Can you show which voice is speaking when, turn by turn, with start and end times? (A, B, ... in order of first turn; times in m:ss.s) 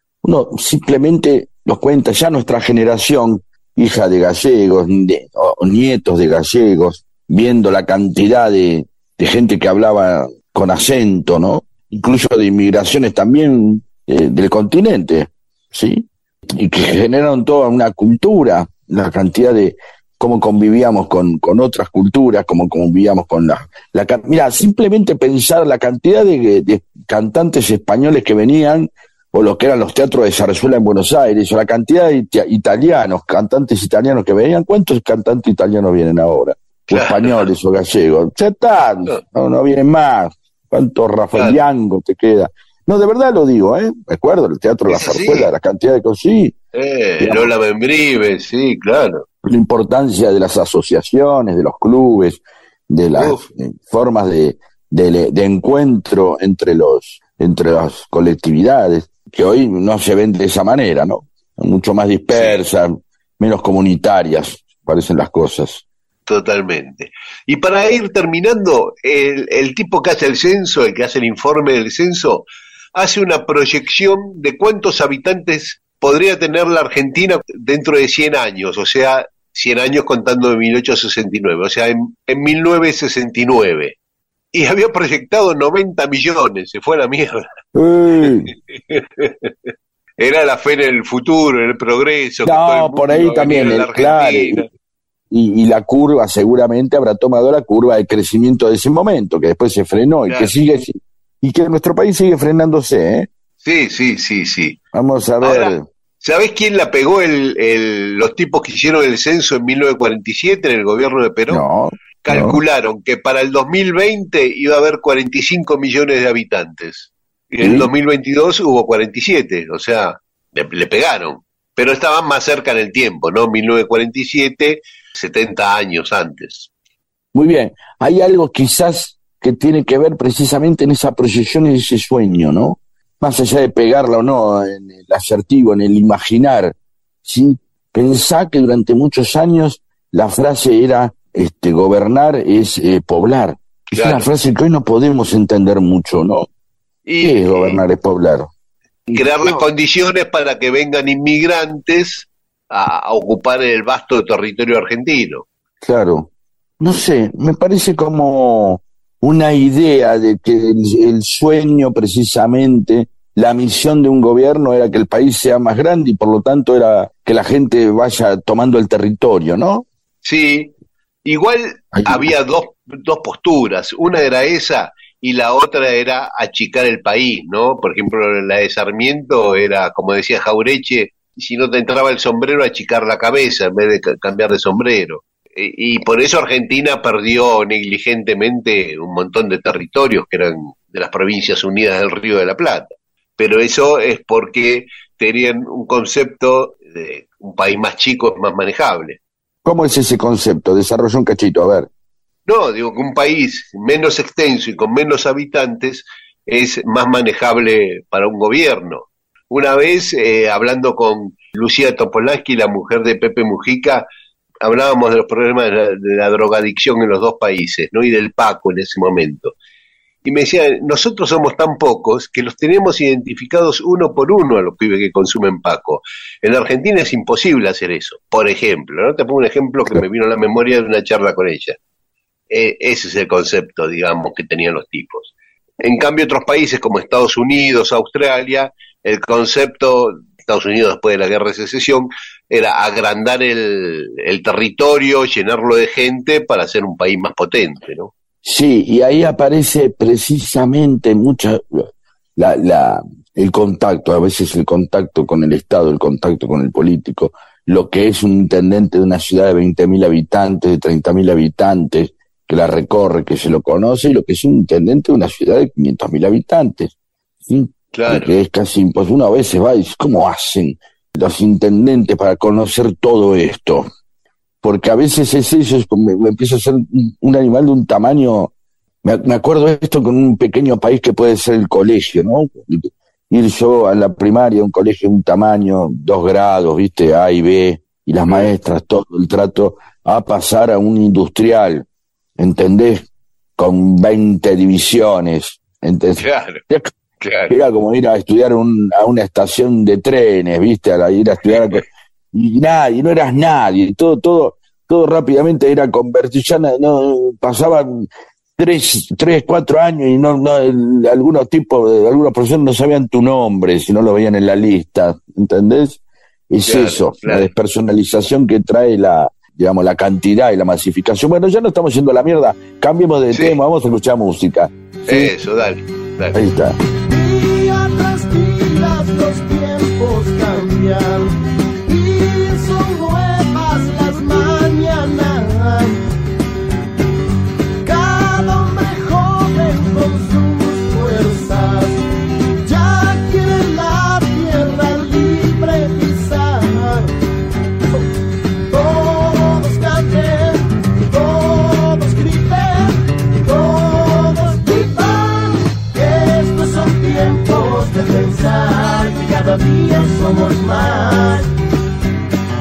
0:00.2-0:46.5 A
0:36.9-0:37.4 B
0:41.3-0:41.6 B
0:44.9-0:45.5 B
0:46.7-0:49.2 B
0:47.2-0:47.5 A
0:49.4-1:05.8 A
0:53.2-0:53.4 B
1:02.3-1:02.6 B
1:06.3-1:24.0 B
1:24.5-1:27.4 B
1:27.7-1:28.5 A
1:28.9-1:29.5 B
1:30.2-1:34.6 B
1:32.4-1:34.6 A
1:35.3-1:43.3 A
1:40.3-1:40.6 B
1:43.6-1:44.8 B
1:44.9-1:45.8 A
1:45.4-1:51.6 B
1:51.5-1:52.6 A
1:52.2-2:06.7 B
1:57.6-1:57.9 A
2:07.3-2:26.5 A
2:23.9-2:24.3 B
2:27.0-2:27.8 B
2:27.2-2:28.5 A
2:29.1-2:29.6 A
2:29.1-2:35.4 B
2:35.8-2:36.3 A
2:36.8-2:49.8 A
2:50.2-2:50.7 B
2:51.2-3:19.2 B
2:51.9-2:52.3 A
3:19.6-3:21.9 A
3:22.5-3:34.0 B
3:34.6-3:39.5 B
3:40.2-3:51.8 B
3:52.5-4:08.1 B
4:08.4-4:11.8 A
4:12.4-4:26.9 A
4:27.5-4:33.9 A
4:27.9-4:28.3 B
4:34.6-4:38.5 A
4:39.0-4:51.8 A
4:52.4-4:53.0 A
4:53.6-4:56.9 A
4:56.2-4:56.6 B
4:57.2-4:57.5 B
4:57.5-5:16.0 A
5:16.5-5:25.3 A
5:16.7-5:17.5 B
5:23.3-5:23.6 B
5:25.1-5:26.4 B
5:26.3-5:26.8 A
5:27.0-5:31.3 C
5:31.8-5:36.0 C
5:37.8-5:42.0 C
5:42.6-5:47.1 C
5:48.7-6:01.5 C